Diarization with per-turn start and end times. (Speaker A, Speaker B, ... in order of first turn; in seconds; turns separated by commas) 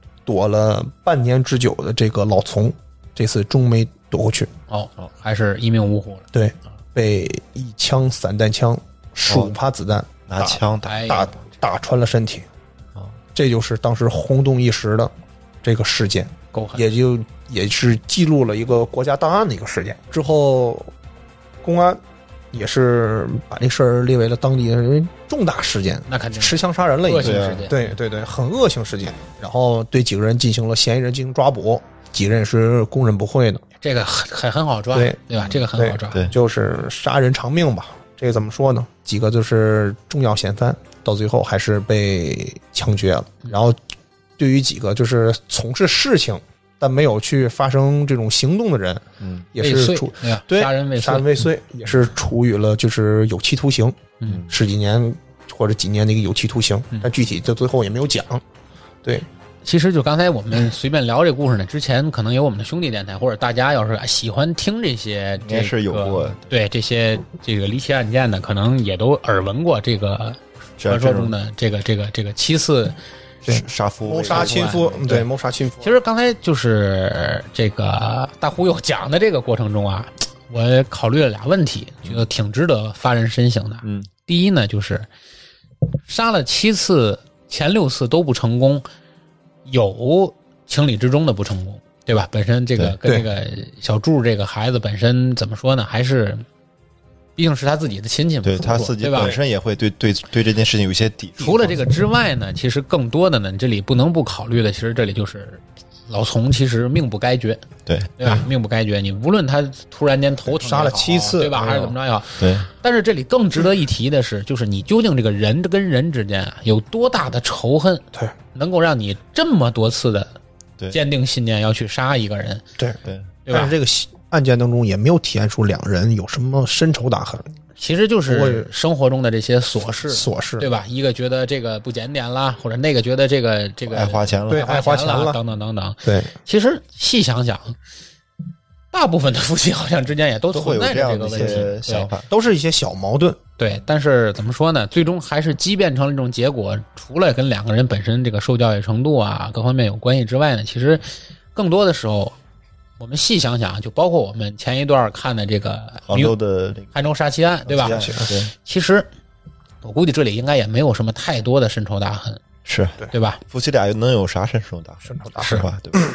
Speaker A: 0.3-4.5, Speaker B: 4.7-6.3, Speaker A: 6.3-12.5, Speaker C: 10.3-11.2, Speaker B: 10.8-11.3, Speaker A: 13.3-15.1, Speaker A: 15.6-20.9, Speaker B: 16.5-16.9, Speaker A: 21.6-33.6, Speaker B: 26.1-27.8, Speaker C: 27.2-27.8, Speaker B: 33.8-36.3, Speaker A: 35.7-43.8, Speaker A: 44.4-58.4, Speaker C: 49.2-49.5, Speaker B: 49.6-51.4, Speaker B: 59.6-73.0, Speaker C: 65.4-66.5, Speaker C: 70.8-71.3, Speaker C: 73.5-75.1, Speaker A: 73.5-75.9, Speaker B: 74.3-75.3, Speaker B: 75.8-85.1, Speaker C: 83.8-84.1, Speaker B: 86.1-88.9, Speaker B: 89.7-96.5, Speaker B: 97.4-99.4, Speaker C: 98.5-101.8, Speaker B: 101.4-107.6, Speaker C: 107.9-108.4, Speaker B: 108.2-120.3, Speaker A: 110.5-111.9, Speaker C: 112.4-112.7, Speaker B: 120.9-122.6, Speaker B: 123.5-123.7, Speaker A: 123.5-127.5, Speaker B: 127.8-137.8, Speaker A: 128.3-128.7, Speaker A: 130.1-130.7, Speaker C: 133.9-134.7, Speaker A: 134.5-135.4, Speaker A: 136.1-136.3, Speaker B: 138.9-142.1, Speaker C: 140.5-142.3, Speaker A: 142.3-143.4, Speaker B: 143.6-151.0, Speaker B: 151.6-152.3, Speaker B: 153.0-156.3, Speaker C: 156.1-156.9, Speaker B: 156.9-159.1, Speaker C: 157.7-158.5, Speaker A: 157.8-158.3, Speaker B: 159.8-162.4, Speaker C: 162.7-166.0, Speaker B: 163.1-163.4, Speaker A: 165.1-165.5, Speaker B: 165.4-165.7